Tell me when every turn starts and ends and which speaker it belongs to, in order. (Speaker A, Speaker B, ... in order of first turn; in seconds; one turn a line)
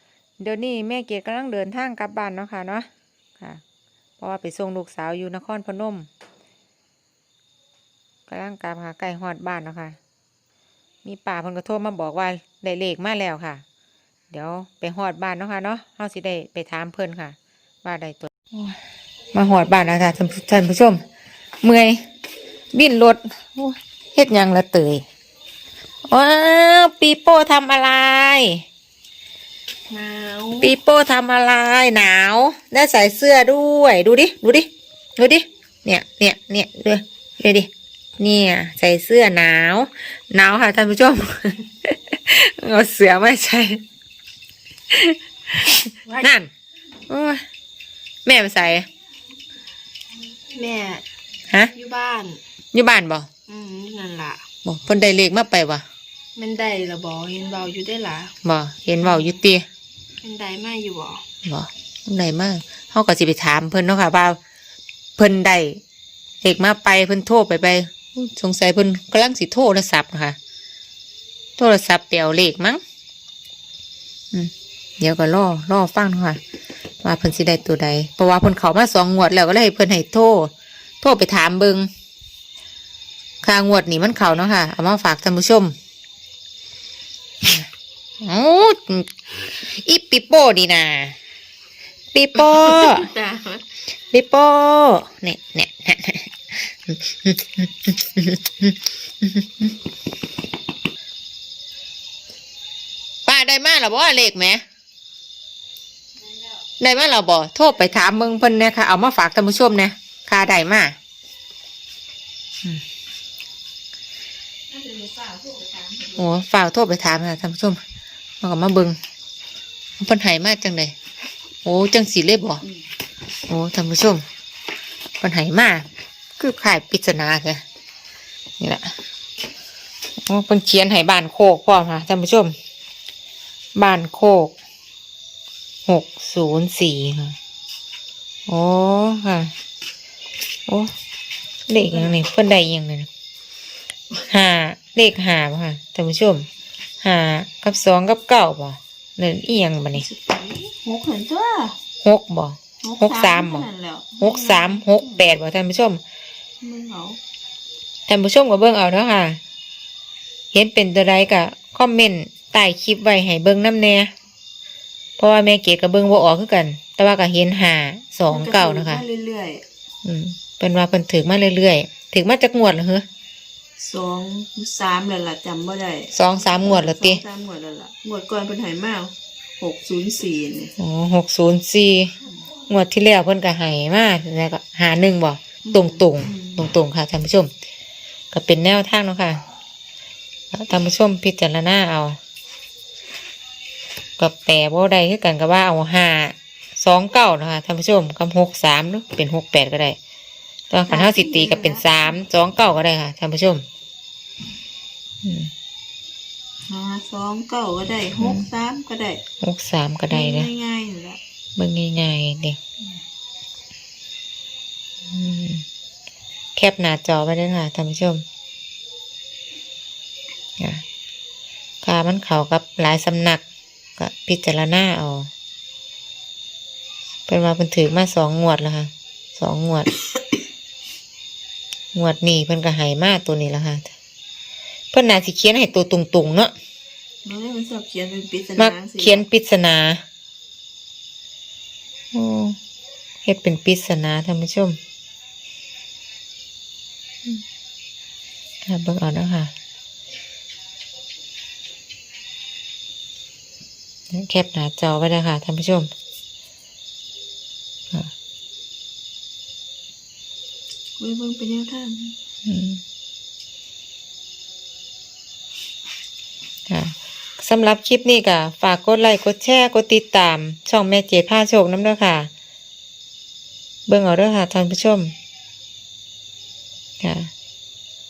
Speaker A: 0.4-2.9
Speaker A: 4.2-6.1
Speaker A: 8.3-10.0
Speaker A: 11.0-13.6
Speaker A: 14.3-18.8
Speaker A: 19.3-21.0
Speaker A: 21.6-22.0
Speaker A: 22.7-25.0
Speaker A: 26.1-28.6
Speaker B: 29.9-30.7
Speaker A: 30.6-43.8
Speaker A: 44.9-46.5
Speaker A: 47.1-47.4
Speaker A: 48.3-48.9
Speaker B: 50.5-51.0
Speaker B: 51.7-52.4
Speaker A: 52.7-53.3
Speaker B: 53.5-54.4
Speaker A: 54.6-55.8
Speaker B: 56.4-58.3
Speaker A: 58.4-59.6
Speaker B: 59.0-59.4
Speaker B: 60.2-61.2
Speaker A: 61.5-64.4
Speaker A: 65.2-65.8
Speaker A: 66.4-70.4
Speaker A: 71.6-72.8
Speaker A: 74.3-76.4
Speaker A: 77.0-81.9
Speaker A: 83.4-85.8
Speaker A: 88.2-91.2
Speaker A: 92.1-93.1
Speaker B: 92.3-93.6
Speaker A: 94.1-99.7
Speaker A: 103.3-104.6
Speaker A: 106.8-111.0
Speaker B: 114.7-116.2
Speaker A: 116.1-117.8
Speaker A: 118.4-119.0
Speaker A: 120.0-121.0
Speaker A: 121.6-122.7
Speaker A: 123.5-124.2
Speaker A: 125.2-125.9
Speaker A: 126.4-127.6
Speaker A: 128.6-128.9
Speaker A: 130.3-132.5
Speaker A: 133.8-134.6
Speaker A: 135.9-137.4
Speaker A: 138.5-139.5
Speaker A: 141.7-143.1
Speaker A: 144.3-146.5
Speaker A: 147.0-150.1
Speaker B: 149.9-151.8
Speaker A: 152.0-153.7
Speaker B: 152.8-155.3
Speaker A: 154.2-156.0
Speaker B: 156.6-157.2
Speaker A: 158.1-159.4
Speaker A: 160.5-164.1
Speaker A: 165.2-169.0
Speaker B: 168.3-169.6
Speaker A: 170.1-173.1
Speaker B: 173.8-180.7
Speaker A: 176.1-177.2
Speaker A: 180.8-182.1
Speaker A: 182.7-187.5
Speaker B: 185.7-186.6
Speaker A: 188.3-189.4
Speaker A: 190.5-192.2
Speaker A: 194.2-200.0
Speaker A: 200.7-203.6
Speaker B: 200.9-201.8
Speaker A: 205.2-205.5
Speaker B: 206.7-209.2
Speaker A: 208.2-208.5
Speaker A: 209.4-210.5
Speaker B: 210.1-211.2
Speaker A: 211.6-212.6
Speaker A: 215.1-215.7
Speaker A: 216.6-218.2
Speaker A: 221.8-223.4
Speaker A: 224.0-225.3
Speaker A: 227.3-229.9
Speaker A: 231.9-233.9
Speaker A: 234.9-236.5
Speaker B: 237.2-239.2
Speaker A: 238.6-240.0
Speaker A: 242.1-242.6
Speaker A: 243.2-244.8
Speaker A: 248.7-249.5
Speaker A: 254.1-255.9
Speaker B: 261.0-262.1
Speaker A: 262.5-262.8
Speaker A: 266.7-272.3
Speaker A: 273.9-275.1
Speaker A: 277.0-277.3